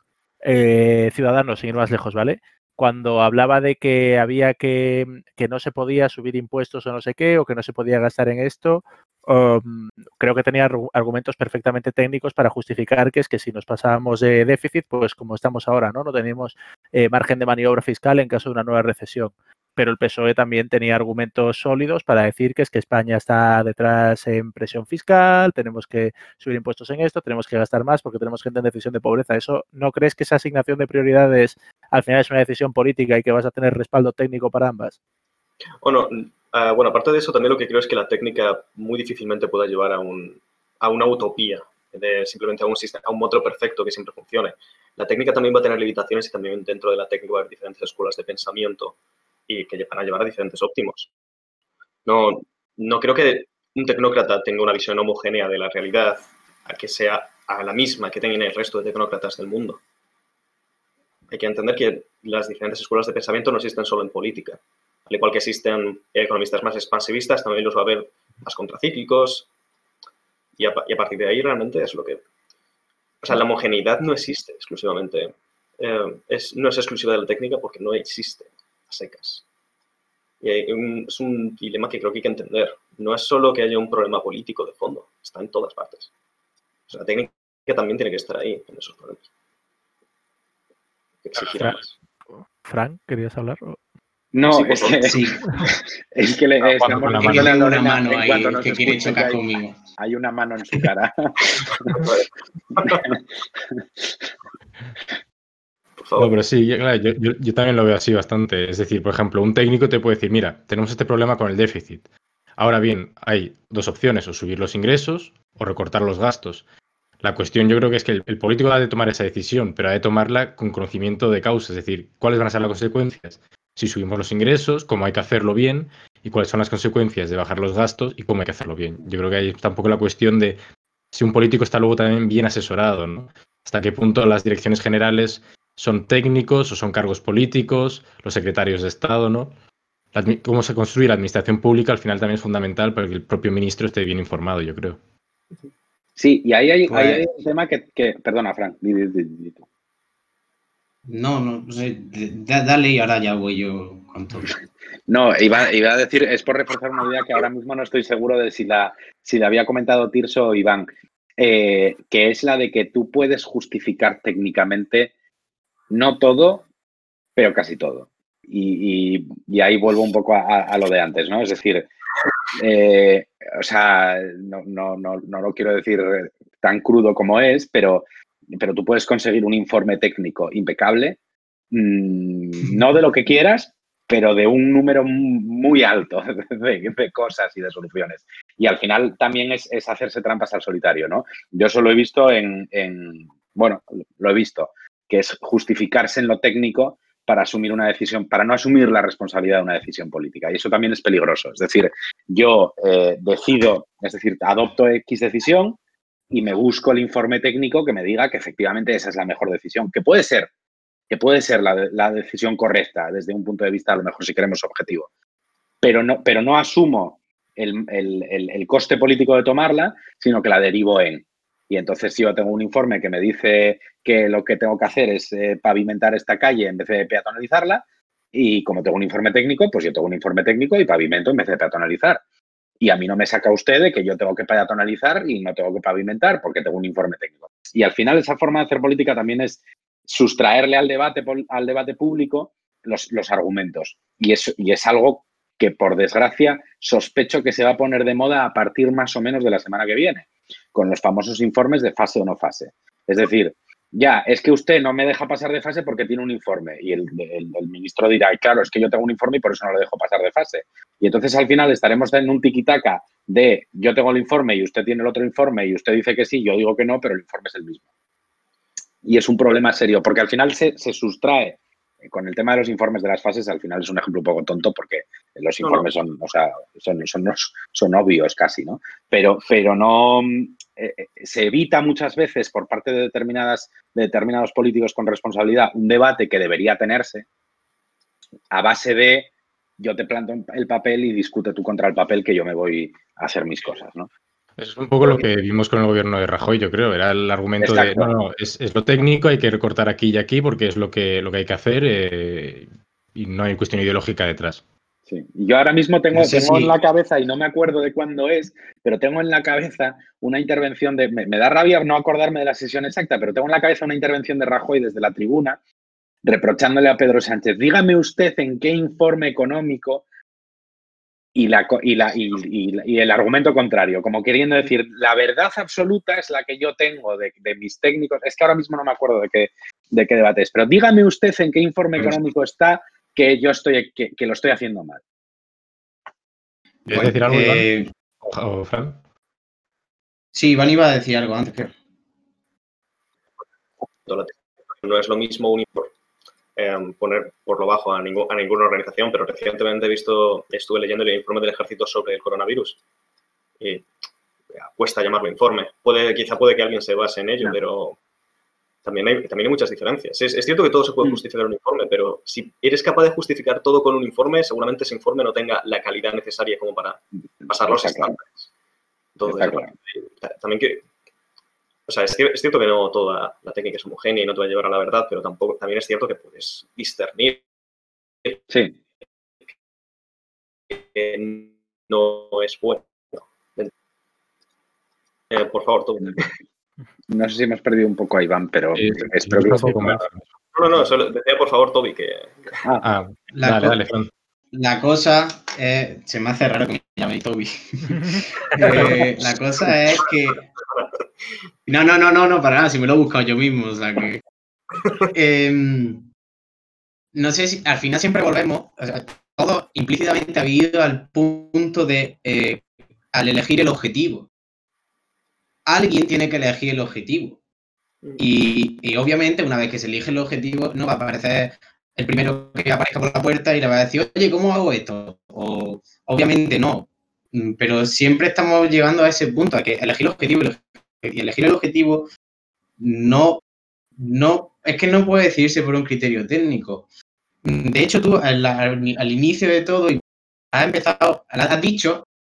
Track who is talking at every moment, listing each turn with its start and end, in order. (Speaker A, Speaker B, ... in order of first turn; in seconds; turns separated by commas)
Speaker A: 0.4-35.0, Speaker B: 35.8-49.0, Speaker B: 49.5-51.1, Speaker B: 52.0-59.8, Speaker B: 61.3-69.5, Speaker B: 70.6-72.2, Speaker B: 73.2-79.4, Speaker B: 80.4-86.1, Speaker B: 86.9-89.3, Speaker B: 91.2-91.9, Speaker A: 92.6-93.8, Speaker C: 94.3-99.4, Speaker B: 94.5-95.2, Speaker D: 95.0-95.4, Speaker E: 96.6-97.5, Speaker D: 97.2-99.8, Speaker C: 100.0-102.1, Speaker B: 101.9-103.1, Speaker C: 102.9-103.2, Speaker B: 106.0-106.3, Speaker E: 106.2-112.0, Speaker E: 112.6-116.6, Speaker E: 117.2-130.6, Speaker E: 131.1-139.5, Speaker E: 140.1-145.0, Speaker C: 146.2-149.6, Speaker D: 146.9-147.2, Speaker D: 151.1-154.6, Speaker C: 155.1-160.9, Speaker C: 161.4-165.1, Speaker C: 165.9-166.7, Speaker C: 167.4-171.9, Speaker C: 172.5-178.0, Speaker C: 178.6-181.2, Speaker C: 181.7-205.8, Speaker C: 206.3-210.5, Speaker C: 211.1-215.1, Speaker C: 215.8-232.2, Speaker C: 232.8-267.8, Speaker C: 269.0-287.3, Speaker B: 275.6-275.9, Speaker C: 288.5-294.1, Speaker E: 294.6-304.6, Speaker C: 297.6-298.1, Speaker C: 305.1-315.6, Speaker D: 306.1-306.8, Speaker C: 316.2-320.0, Speaker C: 321.4-335.0, Speaker E: 336.9-337.7, Speaker D: 336.9-337.9, Speaker E: 338.2-339.0, Speaker D: 340.3-341.7, Speaker B: 344.1-345.9, Speaker B: 346.6-352.8, Speaker B: 353.6-353.9, Speaker B: 354.6-358.0, Speaker B: 358.8-368.5, Speaker C: 367.7-368.2, Speaker B: 369.2-370.9, Speaker C: 369.2-369.7, Speaker B: 371.9-377.4, Speaker C: 378.5-378.7, Speaker B: 380.7-383.7, Speaker B: 385.3-386.3, Speaker C: 387.1-390.0, Speaker E: 388.8-390.2, Speaker B: 390.6-392.6, Speaker E: 392.8-394.1, Speaker D: 393.4-393.8, Speaker D: 394.5-400.5, Speaker D: 401.7-404.2, Speaker D: 405.1-406.1, Speaker D: 407.1-414.3, Speaker D: 415.7-417.4, Speaker D: 418.2-432.1, Speaker D: 432.8-433.4, Speaker D: 434.0-436.9, Speaker D: 437.4-442.1